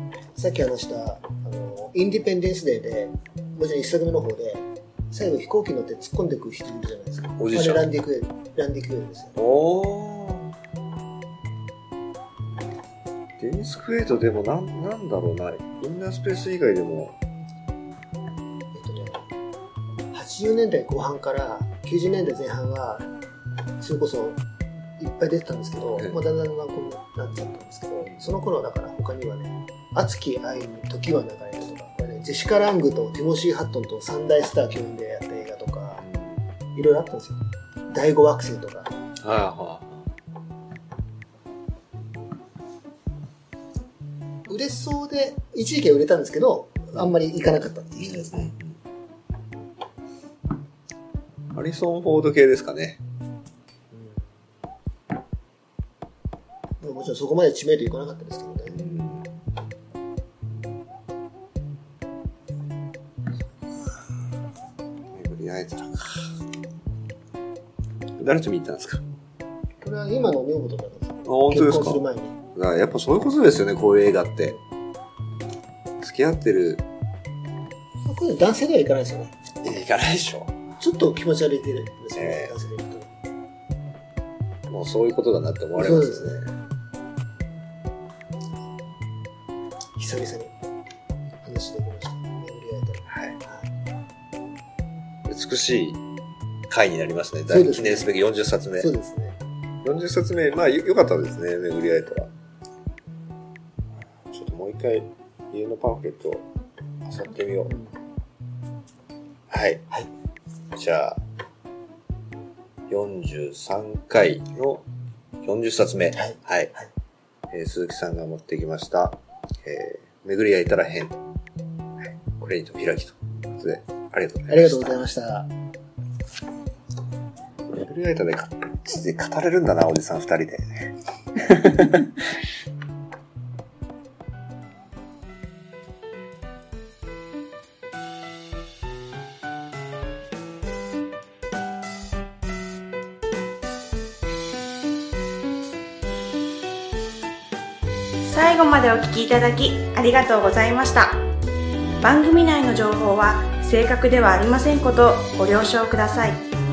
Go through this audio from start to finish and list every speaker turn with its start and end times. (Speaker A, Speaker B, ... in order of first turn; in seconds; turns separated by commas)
Speaker A: 0.3-9.3, Speaker B: 7.4-7.9, Speaker B: 9.4-10.5, Speaker B: 13.4-17.2, Speaker A: 18.7-19.3, Speaker A: 20.1-23.1, Speaker A: 23.8-24.4, Speaker A: 25.0-36.0, Speaker B: 28.0-28.2, Speaker B: 36.0-36.5, Speaker A: 36.8-37.4, Speaker A: 37.9-38.9, Speaker B: 39.2-40.1, Speaker A: 44.5-48.5, Speaker B: 48.1-48.8, Speaker B: 51.5-53.0, Speaker A: 53.9-54.4, Speaker A: 56.8-58.8, Speaker B: 58.7-59.3, Speaker B: 65.1-66.3, Speaker B: 68.2-69.0, Speaker A: 69.8-72.4, Speaker B: 71.2-72.0, Speaker B: 72.5-74.5, Speaker B: 76.0-76.8, Speaker A: 78.0-79.3, Speaker B: 79.6-80.5, Speaker A: 80.8-83.1, Speaker B: 82.1-82.5, Speaker B: 84.7-86.5, Speaker A: 85.8-86.3, Speaker A: 90.0-90.5, Speaker A: 91.4-93.7, Speaker B: 93.1-93.4, Speaker B: 95.3-96.0, Speaker B: 96.7-98.9, Speaker A: 97.5-98.1, Speaker A: 98.8-99.4, Speaker B: 99.8-102.3, Speaker B: 104.3-106.5, Speaker B: 107.0-107.8, Speaker B: 109.5-109.9, Speaker B: 110.7-111.2, Speaker B: 112.9-114.8, Speaker B: 115.4-116.7, Speaker A: 116.1-116.9, Speaker B: 117.5-121.2, Speaker B: 122.4-125.0, Speaker A: 124.5-125.5, Speaker B: 127.7-132.1, Speaker C: 148.2-151.2, Speaker C: 152.0-156.4